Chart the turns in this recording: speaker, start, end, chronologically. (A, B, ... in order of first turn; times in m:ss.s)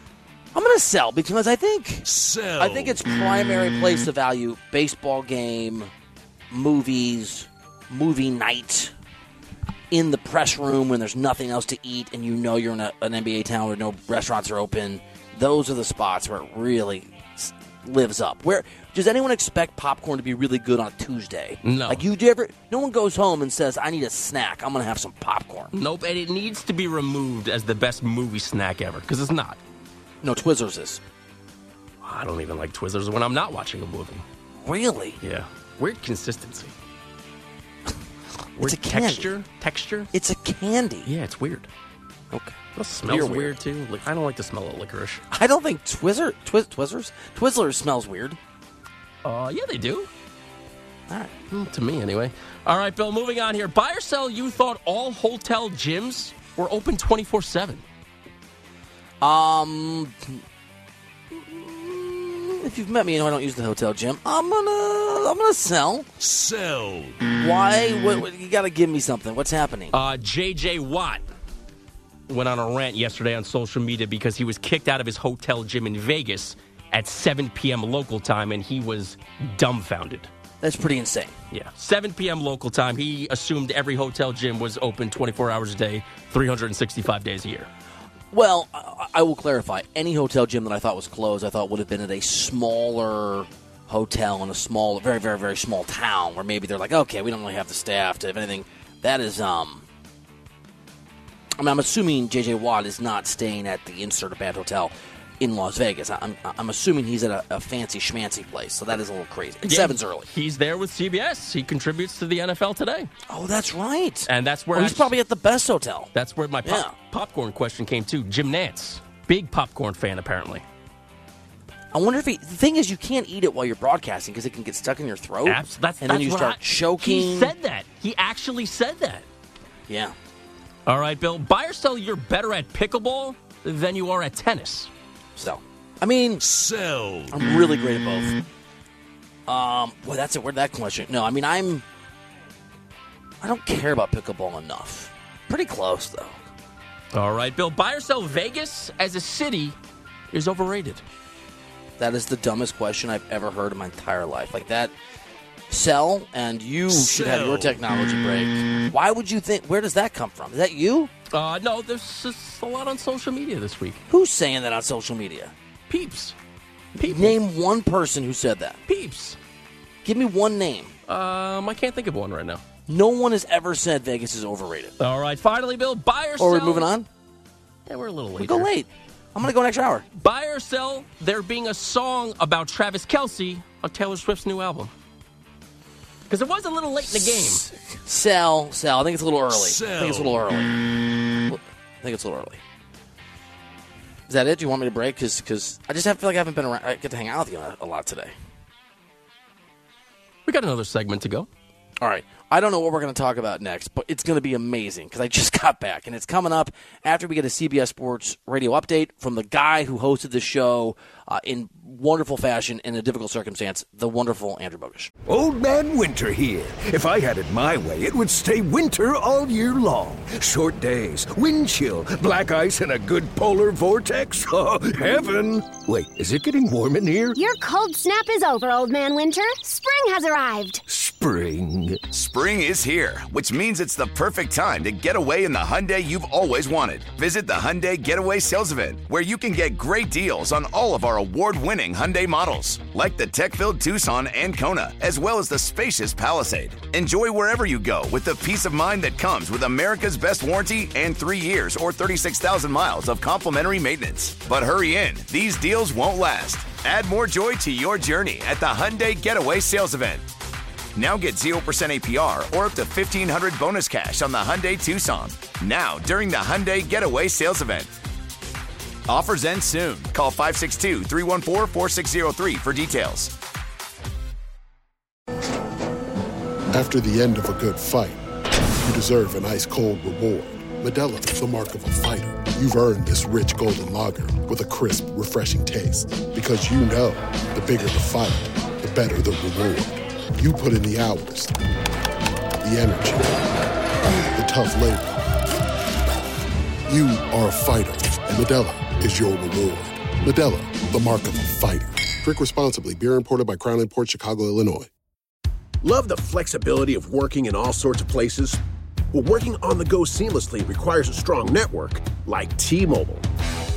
0:00.5-0:05.9 A
0:02.0-0:03.0 B
0:06.5-0:08.9 A
0:09.9-0:25.7 A
0:21.6-0:22.0 C
0:25.7-0:29.6 C
0:30.2-0:31.0 A
0:32.0-0:34.2 C
0:34.6-0:35.2 A
0:35.2-0:36.7 C
0:38.6-0:39.3 A
0:38.6-0:40.1 C
0:40.1-0:41.1 A
0:41.0-0:41.7 C
0:42.3-0:43.6 A
0:42.8-0:45.2 C
0:45.3-0:48.4 A
0:49.2-0:50.1 C
0:51.1-0:51.3 A
0:51.5-0:57.8 C
0:59.2-1:00.4 A
1:01.3-1:06.1 A
1:06.2-1:07.2 B
1:07.3-1:09.9 A
1:09.9-1:11.2 C
1:12.3-1:20.3 C
1:20.6-1:21.3 A
1:21.5-1:27.7 C
1:28.3-1:39.8 A
1:41.6-1:50.3 A
1:49.6-1:53.1 C
1:53.3-1:56.1 A
1:54.3-1:55.2 C
1:56.1-2:00.6 C
1:56.6-1:56.9 A
2:01.9-2:07.5 A
2:05.4-2:09.3 C
2:09.9-2:10.1 A
2:10.9-2:14.9 C
2:15.4-2:16.4 A
2:16.4-2:17.4 B
2:17.3-2:18.4 A
2:19.5-2:21.8 A
2:23.4-2:26.4 A
2:27.1-2:29.8 C
2:30.3-2:31.0 C
2:32.0-2:34.9 A
2:35.7-2:41.1 A
2:36.9-2:37.8 B
2:41.3-2:44.0 C
2:44.1-2:45.5 A
2:45.9-2:46.4 C
2:47.0-2:47.4 C
2:47.0-2:48.8 A
2:48.9-2:49.4 C
2:50.0-2:50.9 A
2:51.1-2:52.6 C
2:52.9-2:54.9 A
2:55.0-2:56.9 C
2:56.4-2:57.1 A
2:57.9-2:58.7 C
2:58.4-3:00.1 A
3:00.2-3:04.9 C
3:06.3-3:07.7 C
3:07.1-3:12.6 A
3:09.5-3:10.6 B
3:14.3-3:18.3 A
3:20.5-3:21.5 C
3:22.0-3:35.1 A
3:35.3-3:47.4 D
3:47.4-3:50.8 E
3:50.9-3:52.1 D
3:52.1-4:20.2 F
4:21.0-4:27.9 F
4:29.1-4:33.3 F
4:36.7-4:38.2 G
4:38.8-4:51.5 G
4:52.6-4:53.5 G
4:54.4-4:55.3 G
4:56.9-5:04.9 G
5:05.8-5:08.6 H
5:09.1-5:13.3 H